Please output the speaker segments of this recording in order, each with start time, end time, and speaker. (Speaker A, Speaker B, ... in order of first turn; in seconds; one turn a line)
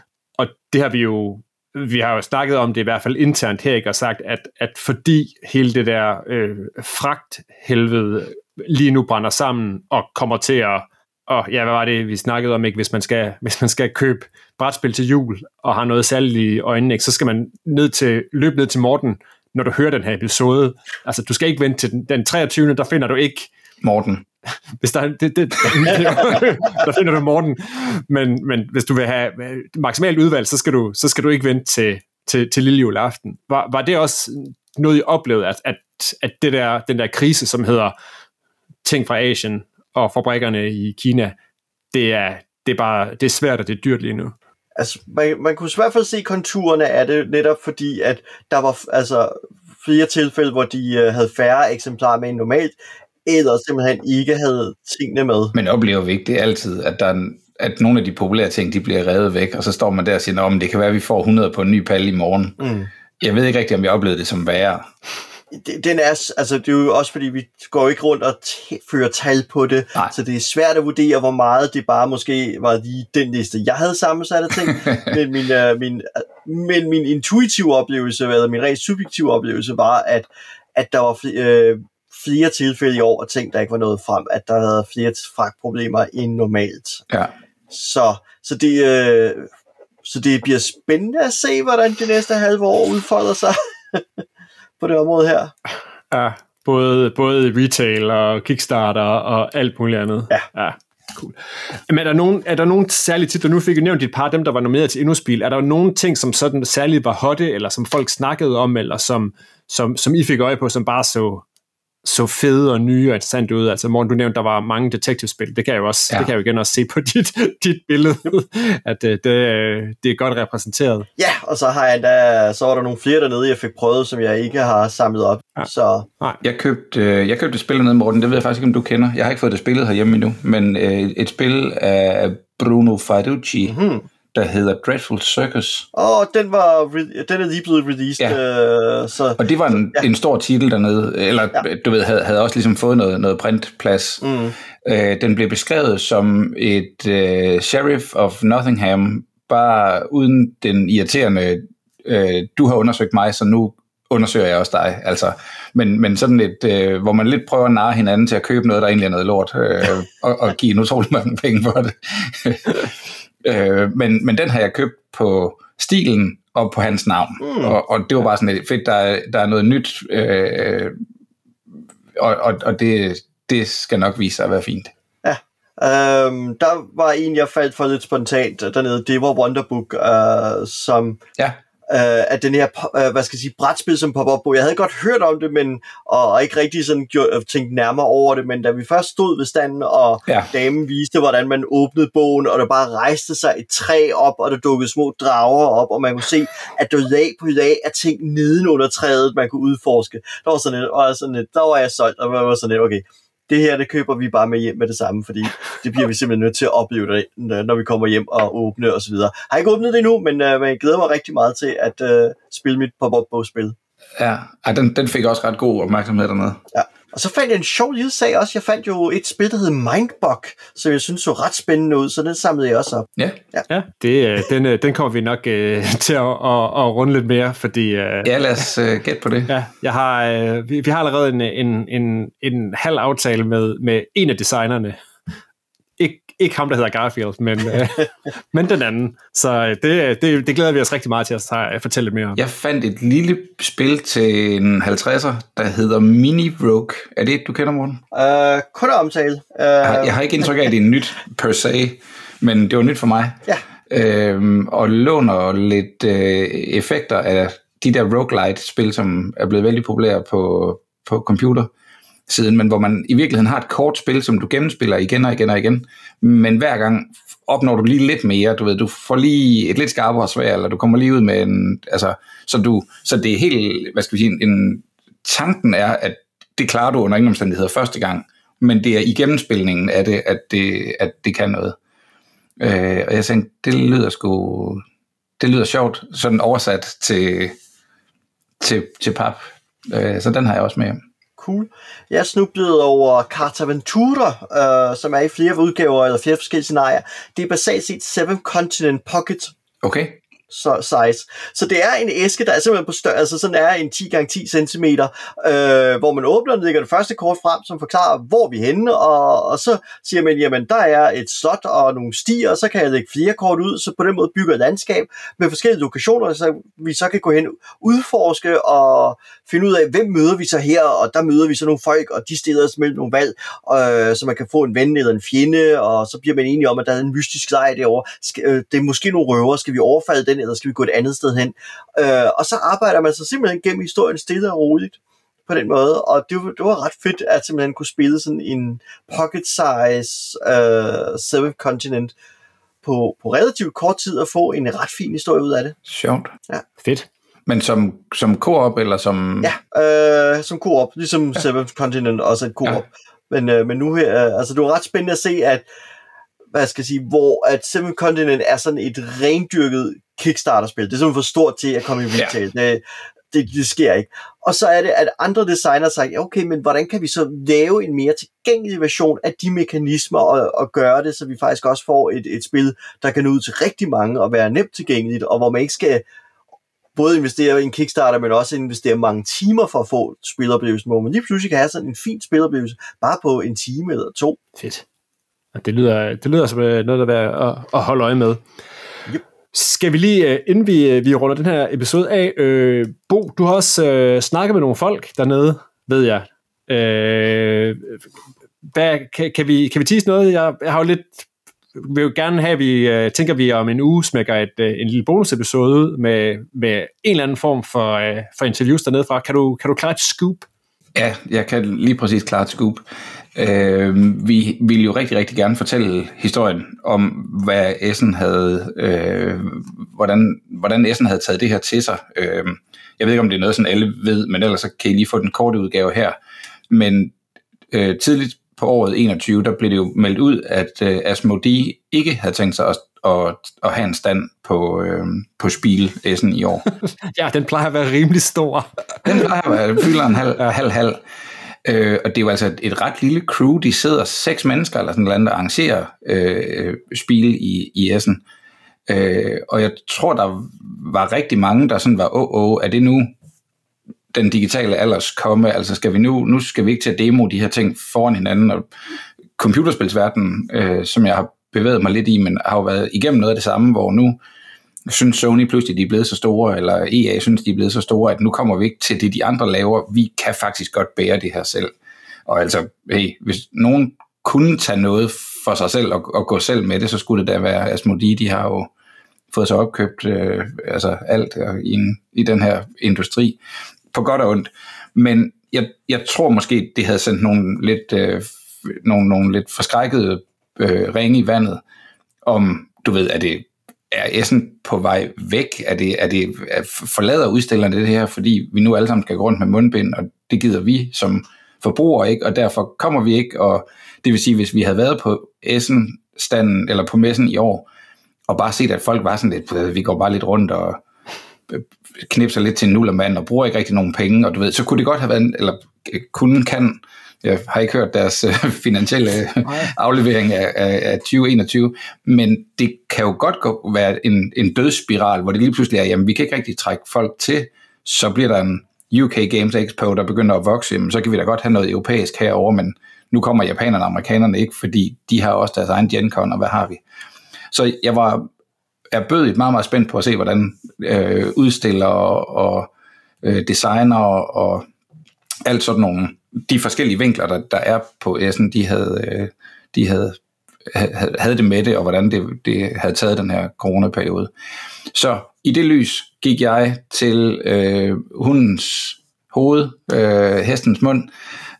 Speaker A: 0.4-23.5
Speaker B: 23.8-24.2
Speaker A: 24.8-37.9
Speaker A: 38.8-41.3
Speaker A: 41.9-44.3
Speaker C: 44.8-55.5
Speaker B: 55.5-62.6
Speaker C: 62.6-62.9
Speaker B: 63.2-64.9
Speaker C: 65.5-87.0
Speaker B: 74.7-75.1
Speaker C: 87.7-89.5
Speaker C: 90.0-94.2
Speaker C: 94.8-95.5
Speaker A: 96.1-111.4
Speaker A: 112.0-121.1
Speaker C: 121.2-126.1
Speaker B: 126.4-133.7
Speaker C: 133.7-134.1
Speaker B: 134.3-135.8
Speaker C: 135.9-139.4
Speaker B: 139.4-144.2
Speaker C: 144.2-144.5
Speaker B: 144.8-170.9
Speaker C: 167.4-167.8
Speaker B: 172.2-174.9
Speaker C: 175.2-181.2
Speaker C: 181.9-213.7
Speaker B: 214.2-216.6
Speaker C: 216.7-223.6
Speaker A: 223.7-228.4
Speaker B: 228.2-229.5
Speaker A: 229.5-235.0
Speaker A: 236.0-242.4
Speaker B: 242.3-248.0
Speaker C: 248.1-250.2
Speaker B: 249.8-253.4
Speaker B: 253.9-261.7
Speaker B: 262.3-281.8
Speaker B: 282.6-284.8
Speaker B: 285.4-287.6
Speaker B: 288.6-291.0
Speaker C: 291.4-299.5
Speaker B: 299.8-300.2
Speaker C: 300.5-342.1
Speaker C: 342.8-345.8
Speaker B: 345.9-346.3
Speaker A: 346.8-347.1
Speaker B: 347.5-349.5
Speaker C: 349.4-355.6
Speaker C: 356.5-376.0
Speaker C: 376.9-384.4
Speaker A: 384.6-384.8
Speaker A: 385.5-388.4
Speaker A: 389.5-398.0
Speaker A: 398.6-410.5
Speaker B: 410.9-412.8
Speaker B: 413.4-426.2
Speaker B: 426.7-427.1
Speaker B: 427.7-436.7
Speaker A: 437.1-439.2
Speaker B: 439.0-441.0
Speaker B: 441.6-448.2
Speaker B: 448.9-453.1
Speaker B: 454.1-458.6
Speaker B: 459.4-464.2
Speaker B: 464.9-471.7
Speaker B: 472.3-478.7
Speaker B: 479.3-483.4
Speaker B: 483.9-491.6
Speaker B: 492.2-507.7
Speaker B: 508.3-510.8
Speaker B: 511.5-536.8
Speaker B: 537.5-538.3
Speaker B: 538.9-542.7
Speaker B: 543.2-544.6
Speaker B: 545.5-554.3
Speaker B: 554.9-561.1